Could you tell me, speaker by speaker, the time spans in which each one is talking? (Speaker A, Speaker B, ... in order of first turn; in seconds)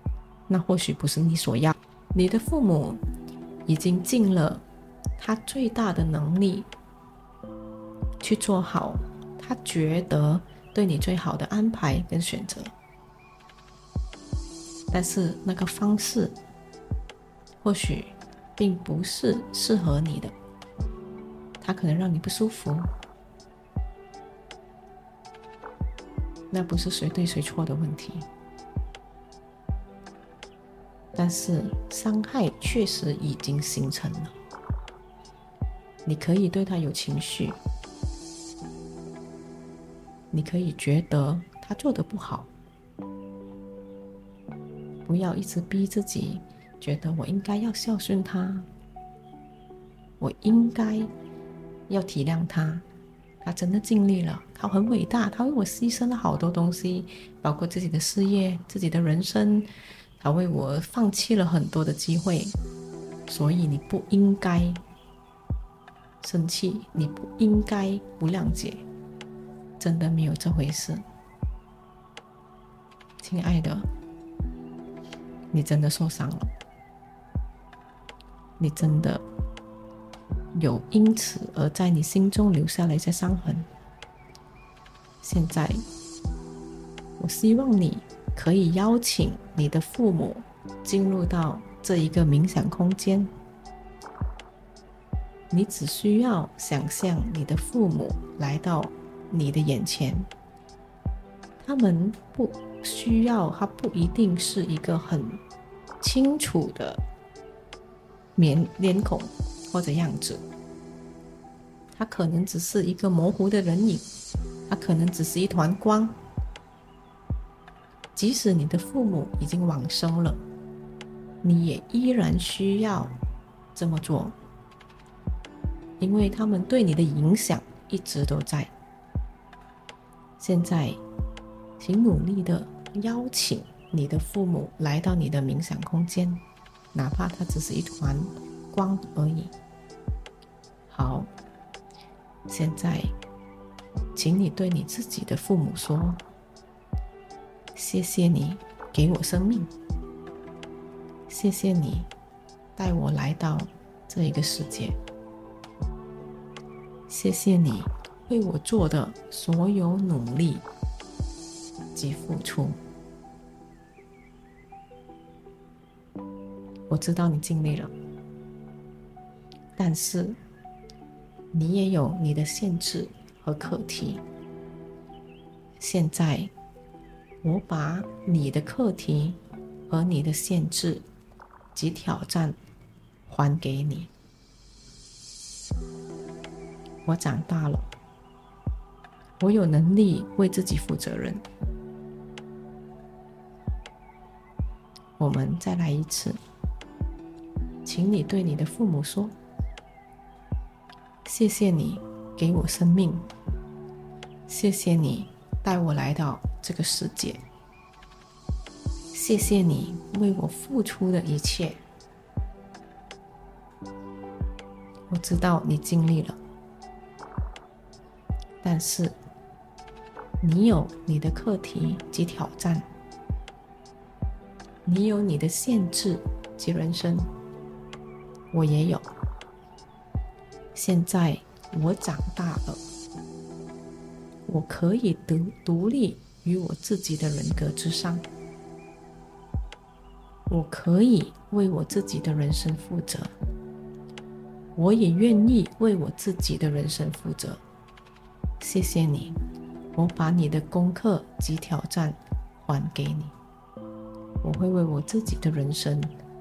Speaker A: 0.5-3.0, 3.7-4.6, 5.2-6.7, 8.2-12.7, 14.9-16.3, 17.6-20.3, 21.6-22.9, 26.5-28.3, 31.1-34.3, 36.0-37.6, 40.3-42.5, 45.0-48.7, 50.2-51.1, 51.9-52.8, 53.4-59.7, 60.2-62.5, 63.3-64.8, 66.2-68.8, 69.8-71.0, 73.2-73.8, 75.5-76.5, 78.6-79.2, 80.5-83.7, 85.2-85.8, 87.2-93.3, 95.5-100.3, 101.6-105.4, 106.0-107.0, 108.3-110.4, 112.0-114.0, 114.7-116.2, 118.2-120.4, 121.4-123.1, 123.7-124.3, 126.0-128.7, 130.4-131.0, 131.8-136.4, 136.9-139.5, 140.9-141.3, 142.5-143.1, 144.1-146.2, 147.8-149.7, 151.3-152.1, 152.8-155.0, 157.1-160.6, 161.9-162.8, 166.9-167.9, 169.8-170.4, 171.5-174.2, 175.8-176.5, 177.4-179.4, 179.9-181.0, 181.7-182.6, 183.3-184.1, 187.1-187.9, 189.4-191.4, 195.2-196.4, 197.8-199.3, 201.2-203.3, 204.5-207.4, 209.1-211.8, 215.1-216.4, 218.6-219.2, 220.4-222.8, 224.8-227.3, 228.5-229.1, 230.7-232.8, 234.5-238.2, 240.5-243.3, 244.8-247.6, 248.6-249.4, 249.9-253.3, 254.4-256.1